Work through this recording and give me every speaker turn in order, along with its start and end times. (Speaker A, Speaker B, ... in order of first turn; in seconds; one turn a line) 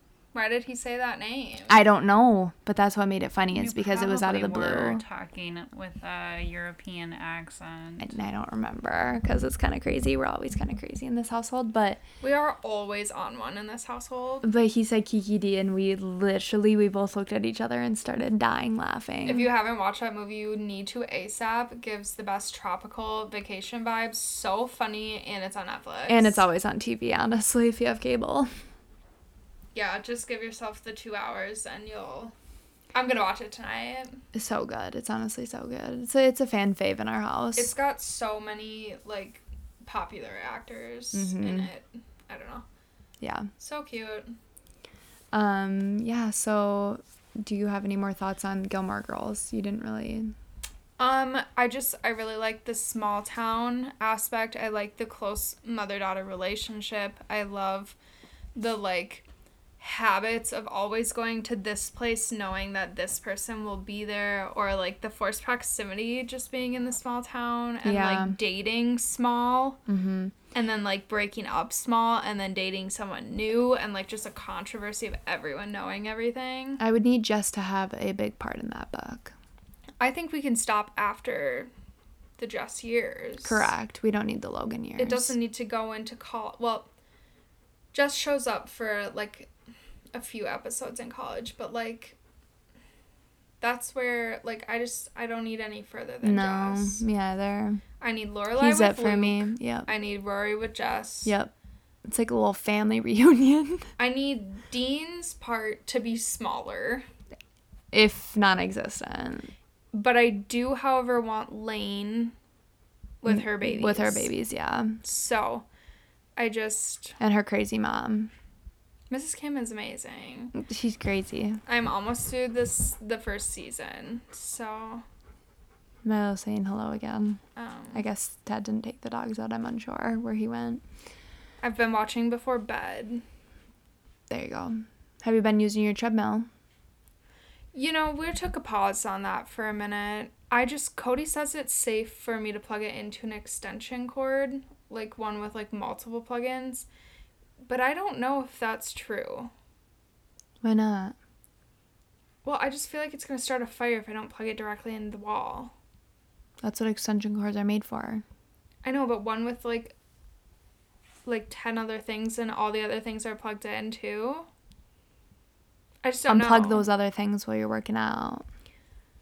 Speaker A: 0.3-1.8
Speaker B: 1.7-5.0
Speaker C: 3.5-8.1
Speaker B: 8.0-12.0
Speaker A: 12.2-14.5
Speaker B: 14.4-19.5
Speaker A: 19.2-26.4
Speaker B: 26.1-28.5
Speaker A: 29.7-32.3
Speaker A: 32.9-34.2
Speaker B: 34.3-37.7
Speaker A: 37.6-42.6
Speaker B: 41.1-41.7
Speaker B: 43.2-43.5
Speaker A: 43.6-44.4
Speaker B: 45.3-50.3
Speaker A: 51.0-58.0
Speaker A: 58.6-59.3
Speaker A: 59.8-69.8
Speaker B: 67.8-68.4
Speaker B: 69.9-70.3
Speaker A: 70.5-76.8
Speaker B: 76.8-79.3
Speaker A: 80.0-81.7
Speaker A: 82.4-83.7
Speaker B: 83.4-85.3
Speaker A: 85.0-86.9
Speaker A: 87.9-89.5
Speaker A: 90.1-92.2
Speaker A: 93.6-97.0
Speaker B: 96.2-97.8
Speaker A: 98.0-101.3
Speaker B: 98.5-99.9
Speaker B: 101.2-101.5
Speaker B: 102.1-103.9
Speaker A: 104.0-107.1
Speaker B: 107.9-109.5
Speaker A: 109.9-112.3
Speaker A: 113.2-114.3
Speaker B: 113.3-115.0
Speaker A: 115.0-115.7
Speaker A: 116.4-117.2
Speaker B: 117.2-118.3
Speaker A: 119.1-120.5
Speaker B: 120.5-121.6
Speaker A: 121.7-125.0
Speaker B: 126.0-127.4
Speaker A: 127.6-128.0
Speaker B: 127.9-130.8
Speaker A: 131.6-133.2
Speaker B: 134.3-136.5
Speaker A: 137.7-146.9
Speaker A: 147.6-149.5
Speaker B: 150.6-151.2
Speaker A: 152.4-155.7
Speaker B: 156.6-158.2
Speaker A: 158.8-159.9
Speaker A: 161.3-164.5
Speaker A: 166.0-166.9
Speaker B: 166.3-168.5